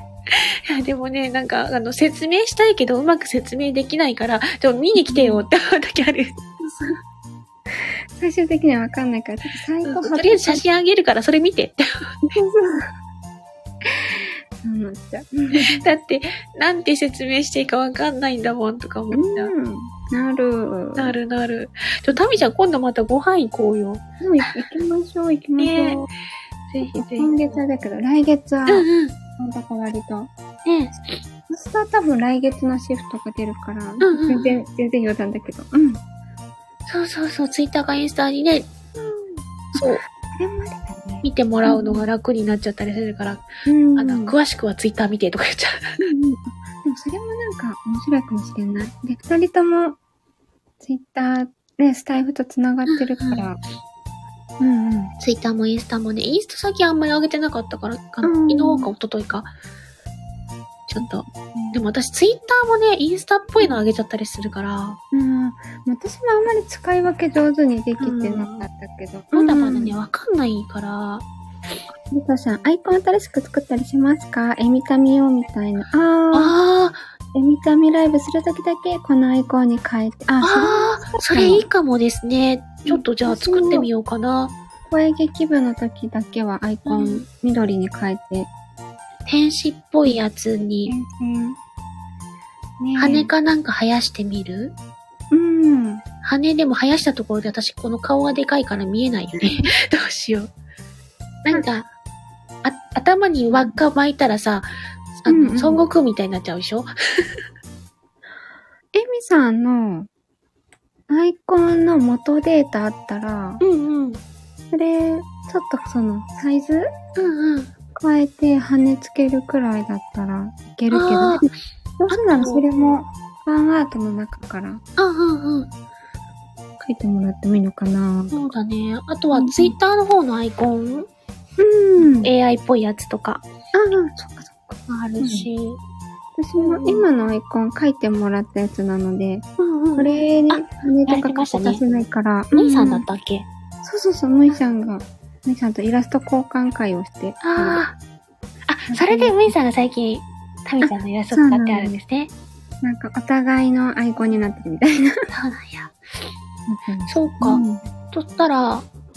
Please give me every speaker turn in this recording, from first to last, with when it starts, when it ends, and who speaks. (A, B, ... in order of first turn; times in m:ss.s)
0:00.3-0:06.3 A
0:05.0-0:05.4 B
0:06.6-0:07.0 B
0:07.8-0:10.6 B
0:09.8-0:11.9 A
0:12.3-0:12.9 B
0:13.9-0:15.8 B
0:15.6-0:19.5 A
0:19.1-0:21.1 B
0:21.0-0:24.0 A
0:24.2-0:26.0 B
0:25.6-0:26.0 A
0:26.7-0:27.6 A
0:26.8-0:28.9 B
0:28.7-0:29.2 A
0:29.4-0:30.3 B
0:30.6-0:31.2 A
0:31.5-0:36.0 B
0:34.0-0:34.6 A
0:36.8-0:38.7 A
0:39.0-0:42.0 B
0:39.7-0:40.0 A
0:41.2-0:45.9 A
0:43.6-0:44.4 B
0:46.0-0:50.0 B
0:50.8-0:53.6 B
0:52.9-0:53.5 A
0:54.6-0:55.1 B
0:55.2-0:59.5 A
0:58.2-0:58.9 B
1:00.9-1:05.0 A
1:01.0-1:01.8 B
1:05.1-1:10.0 B
1:08.0-1:08.6 A
1:09.3-1:11.2 A
1:12.1-1:16.6 B
1:16.3-1:17.0 A
1:17.3-1:21.7 B
1:20.4-1:24.5 A
1:22.9-1:23.9 B
1:24.9-1:28.5 B
1:26.8-1:27.2 A
1:29.2-1:30.9 A
1:30.9-1:31.6 B
1:32.8-1:33.3 B
1:33.0-1:34.7 A
1:35.3-1:36.0 B
1:36.2-1:40.5 A
1:39.4-1:39.7 B
1:41.4-1:41.9 A
1:42.6-1:47.4 A
1:45.3-1:45.8 B
1:48.9-1:50.1 B
1:51.1-1:53.6 B
1:53.6-1:54.2 A
1:54.7-1:56.9 B
1:57.2-1:57.7 A
1:57.9-2:04.8 B
2:00.9-2:01.5 A
2:02.1-2:02.6 A
2:05.0-2:05.7 A
2:06.8-2:08.4 B
2:08.3-2:11.1 A
2:09.3-2:09.7 B
2:11.6-2:12.3 B
2:12.0-2:13.4 A
2:13.7-2:15.5 B
2:14.9-2:15.8 A
2:16.4-2:19.4 B
2:16.6-2:17.0 A
2:19.6-2:21.8 A
2:20.0-2:23.0 B
2:22.5-2:23.5 A
2:23.8-2:27.8 B
2:27.4-2:28.0 A
2:28.7-2:32.3 A
2:28.9-2:29.5 B
2:30.8-2:32.0 B
2:32.8-2:35.2 B
2:35.3-2:35.9 A
2:36.7-2:37.8 B
2:37.1-2:38.8 A